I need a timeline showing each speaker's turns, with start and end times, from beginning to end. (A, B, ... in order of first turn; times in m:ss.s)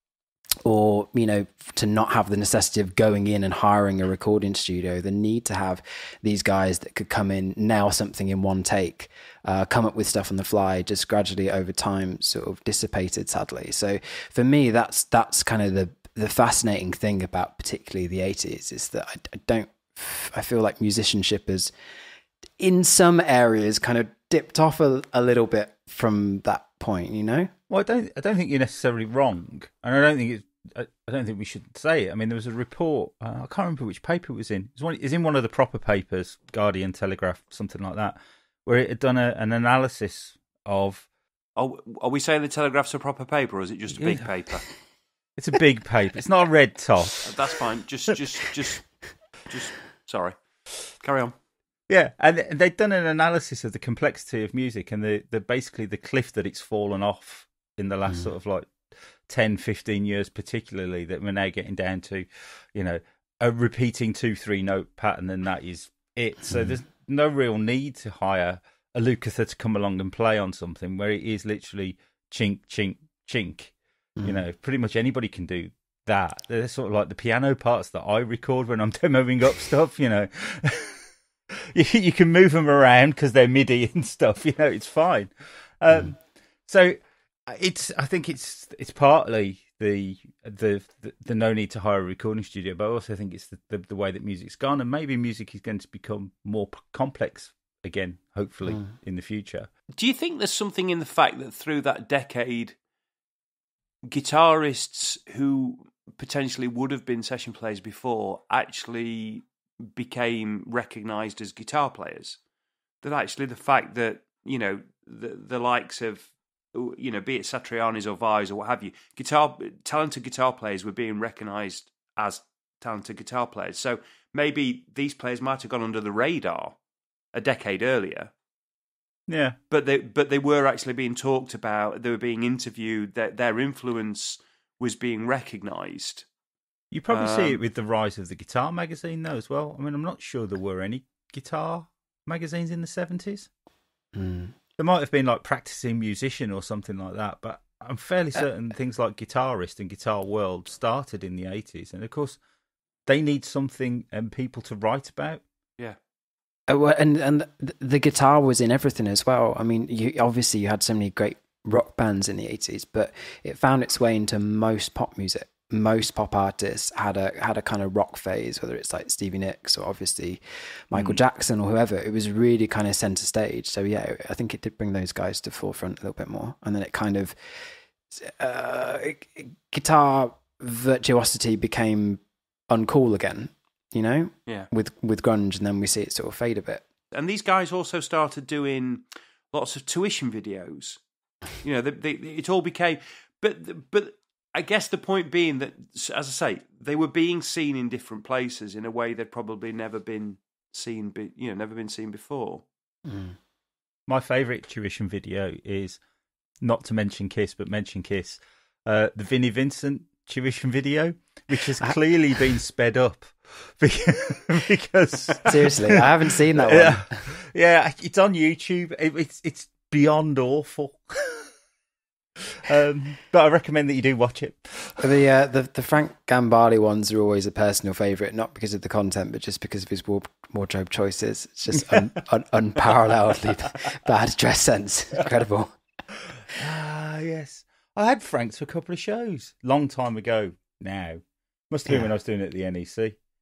0:00.6-0:21.7 A
0:22.6-0:27.5 A
0:27.7-0:41.1 B
0:41.6-0:44.7 C
0:44.0-0:44.3 B
0:45.4-0:47.3 B
0:47.2-0:48.8 C
0:49.5-0:50.4 C
0:51.0-0:51.3 C
0:51.9-0:58.8 B
0:59.3-1:39.7 B
1:39.9-1:42.8 C
1:44.1-1:52.4 C
1:53.0-2:06.8 C
2:07.3-2:08.3 C
2:09.3-2:09.6 B
2:09.7-2:16.3 C
2:16.9-2:23.5 B
2:17.1-2:17.6 C
2:24.1-2:24.6 A
2:24.8-2:32.4 B
2:33.1-2:35.4 B
2:36.7-2:57.3 A
2:58.1-3:06.8 A
3:07.1-3:11.0 C
3:11.6-3:22.6 C
3:23.1-3:23.4 A
3:24.1-3:26.0 B
3:26.6-3:36.0 B
3:35.4-3:37.2 A
3:36.6-3:41.5 B
3:42.4-3:45.0 B
3:45.0-3:55.7 A
3:56.6-4:03.2 B